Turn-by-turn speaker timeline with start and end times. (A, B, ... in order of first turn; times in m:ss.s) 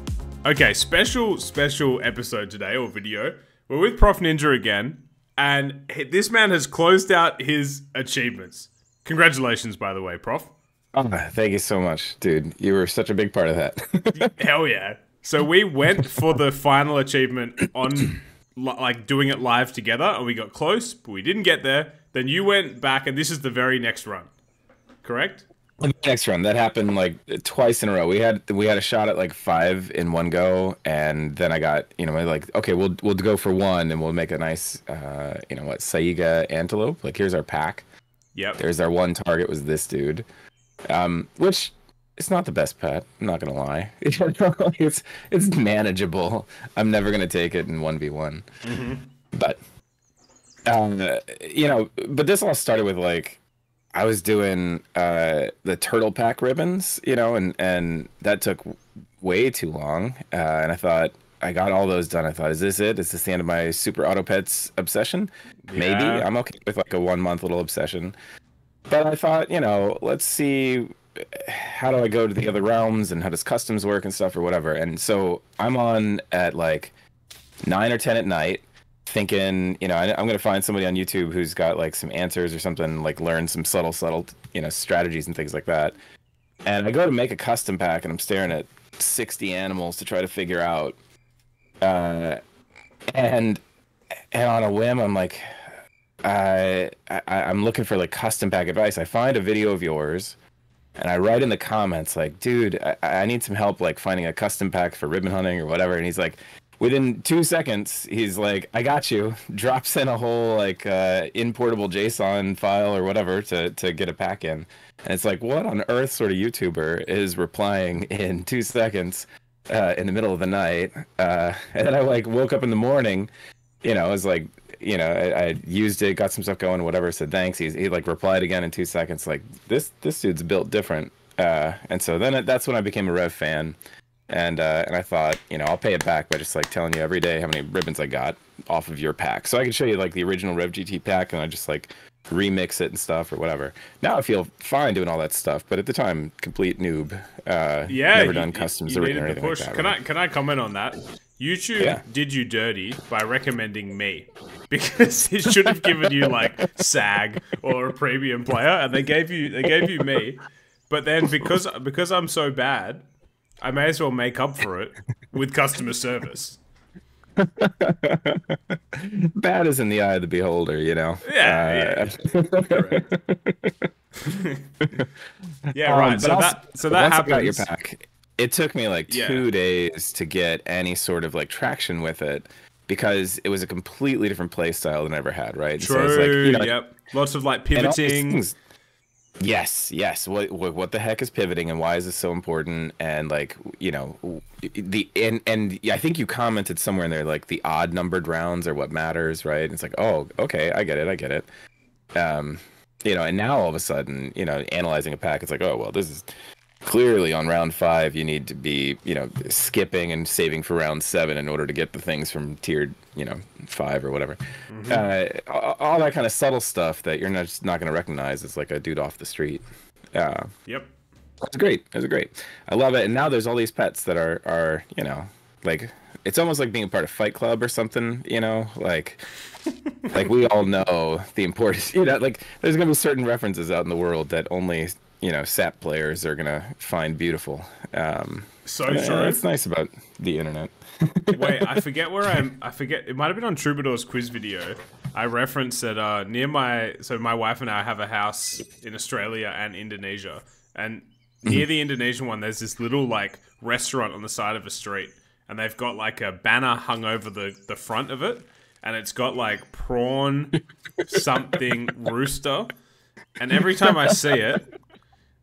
0:00.4-0:10.5 A
0:10.9-0:14.3 B
0:14.1-0:24.3 A
0:25.0-0:25.4 A
0:25.8-0:37.8 B
0:38.3-0:38.6 A
0:38.6-0:40.2 B
0:40.9-0:48.4 B
0:48.6-0:49.0 A
0:49.3-0:49.6 B
0:50.7-0:53.4 B
0:53.9-1:08.2 B
1:05.7-1:06.3 A
1:08.9-1:16.9 B
1:17.6-1:26.0 B
1:26.6-1:31.0 B
1:31.8-1:32.4 B
1:33.1-1:33.6 B
1:34.3-1:35.4 B
1:36.2-1:40.4 B
1:41.0-2:03.3 B
2:03.8-2:13.8 B
2:14.3-2:30.0 B
2:27.9-2:43.0 A
2:43.6-2:46.6 A
2:47.4-2:53.9 B
2:51.2-2:53.0 A
2:54.2-2:54.6 A
2:54.8-2:55.1 B
2:55.7-3:06.7 B
2:55.7-2:57.7 A
2:59.1-2:59.4 A
3:05.8-3:08.4 A
3:07.7-3:08.6 B
3:09.4-3:21.4 B
3:22.2-3:26.3 B
3:26.8-3:39.6 B
3:34.7-3:35.1 A
3:40.1-3:40.5 B
3:41.4-3:49.2 B
3:50.1-4:01.8 B
3:58.6-3:59.4 A
4:01.3-4:22.7 A
4:23.4-4:24.7 A
4:23.8-4:24.2 B